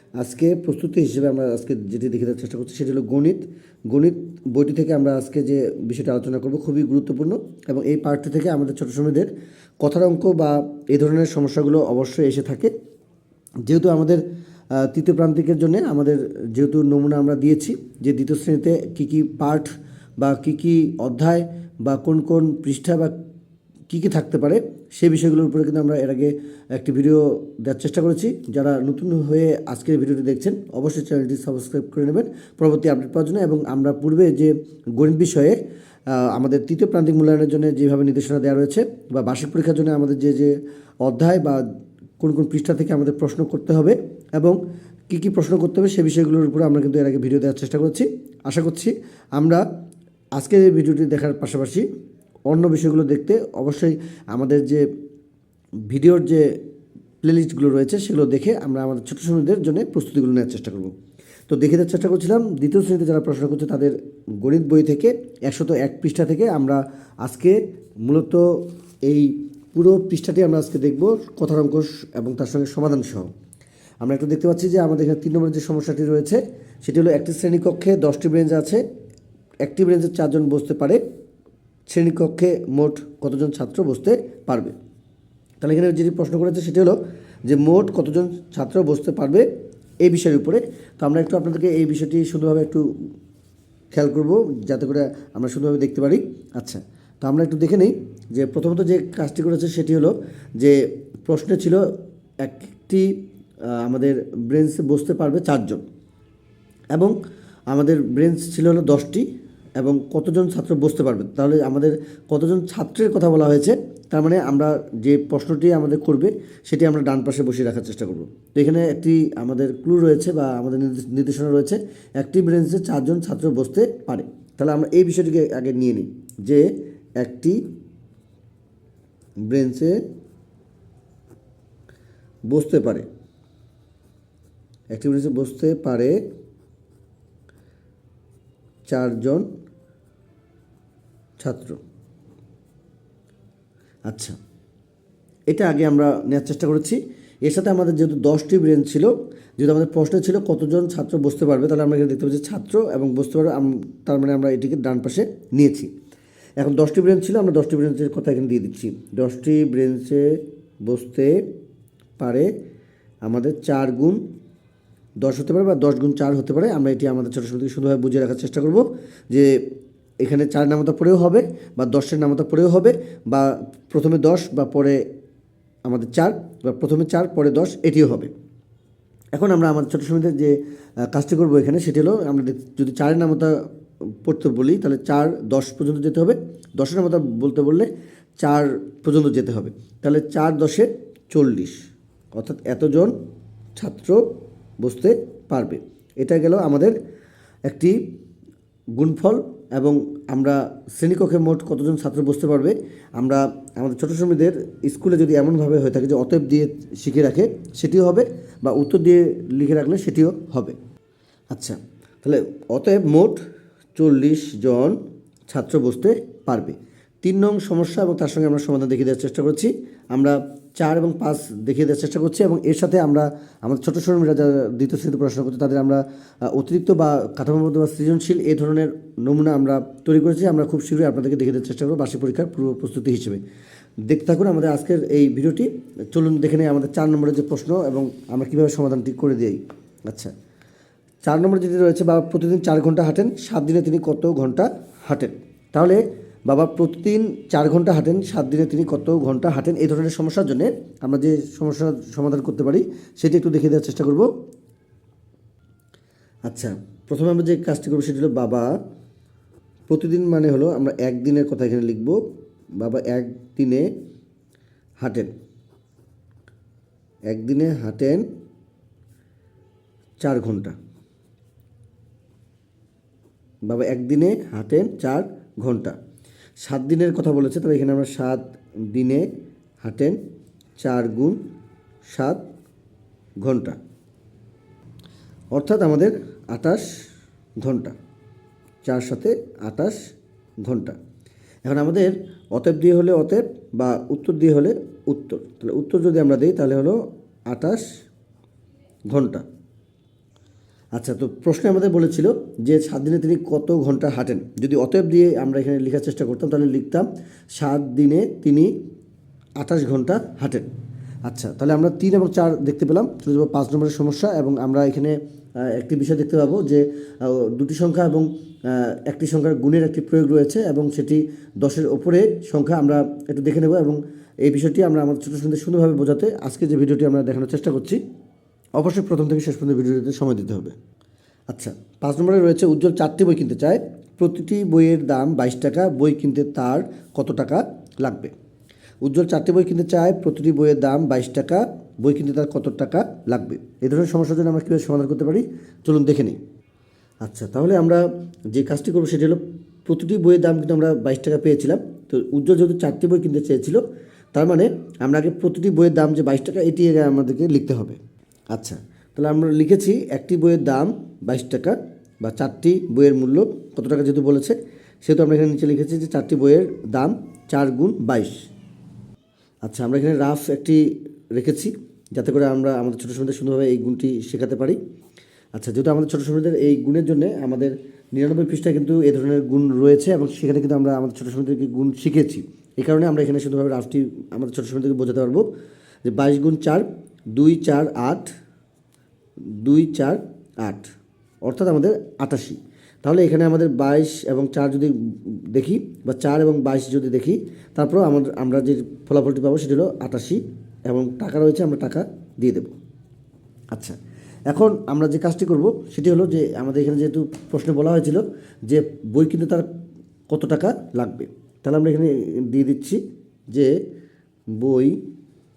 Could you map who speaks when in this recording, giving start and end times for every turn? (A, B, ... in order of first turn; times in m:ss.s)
0:00.2-0:09.3 A
0:09.8-0:12.7 A
0:13.6-0:14.2 A
0:14.7-0:23.1 A
0:23.9-0:35.6 A
0:36.1-0:41.6 A
0:42.2-0:44.6 A
0:45.1-0:49.6 A
0:50.3-0:51.8 A
0:52.5-0:54.8 A
0:55.9-0:56.5 A
0:57.2-1:00.9 A
1:01.5-1:13.3 A
1:14.0-1:18.8 A
1:19.6-1:21.0 A
1:21.9-1:24.7 A
1:25.6-1:29.5 A
1:30.0-1:32.9 A
1:33.9-1:41.8 A
1:42.4-1:43.1 A
1:43.7-1:45.8 A
1:47.7-1:49.3 A
1:49.8-2:06.7 A
2:07.2-2:07.6 A
2:09.5-2:10.0 A
2:12.5-2:13.0 A
2:14.9-2:16.2 A
2:18.9-2:19.5 A
2:21.4-2:21.8 A
2:24.1-2:24.3 A
2:25.5-2:35.9 A
2:36.6-2:41.4 A
2:42.2-2:42.5 A
2:43.2-2:44.2 A
2:45.2-2:49.5 A
2:50.2-2:55.0 A
2:55.8-2:58.3 A
2:59.3-3:00.6 A
3:01.1-3:03.6 A
3:04.2-3:07.9 A
3:08.4-3:11.8 A
3:12.3-3:13.1 A
3:13.8-3:14.2 A
3:14.8-3:17.0 A
3:17.7-3:18.0 A
3:18.9-3:30.8 A
3:31.5-3:33.4 A
3:33.9-3:35.0 A
3:35.5-3:53.4 A
3:54.1-4:00.3 A
4:01.2-4:14.3 A
4:16.5-4:18.7 A
4:19.9-4:22.2 A
4:22.8-4:23.9 A
4:25.0-4:25.3 A
4:27.3-4:28.2 A
4:30.2-4:30.7 A
4:33.6-4:36.0 A
4:36.6-4:39.3 A
4:39.8-4:40.2 A
4:40.8-4:41.4 A
4:42.1-4:42.4 A
4:43.4-4:43.8 A
4:45.5-4:46.9 A
4:47.6-4:47.9 A
4:48.8-4:50.0 A
4:50.6-4:51.0 A
4:51.6-4:57.8 A
4:59.1-4:59.4 A
5:00.9-5:08.7 A
5:09.6-5:10.7 A
5:11.3-5:28.0 A
5:28.8-5:30.7 A
5:31.5-5:38.3 A
5:39.0-5:46.4 A
5:47.2-5:53.8 A
5:54.3-5:58.0 A
5:58.5-6:08.4 A
6:09.6-6:14.8 A
6:15.5-6:25.4 A
6:26.0-6:28.3 A
6:29.6-6:30.9 A
6:31.4-6:42.7 A
6:44.5-6:49.7 A
6:50.3-6:53.0 A
6:54.6-6:55.0 A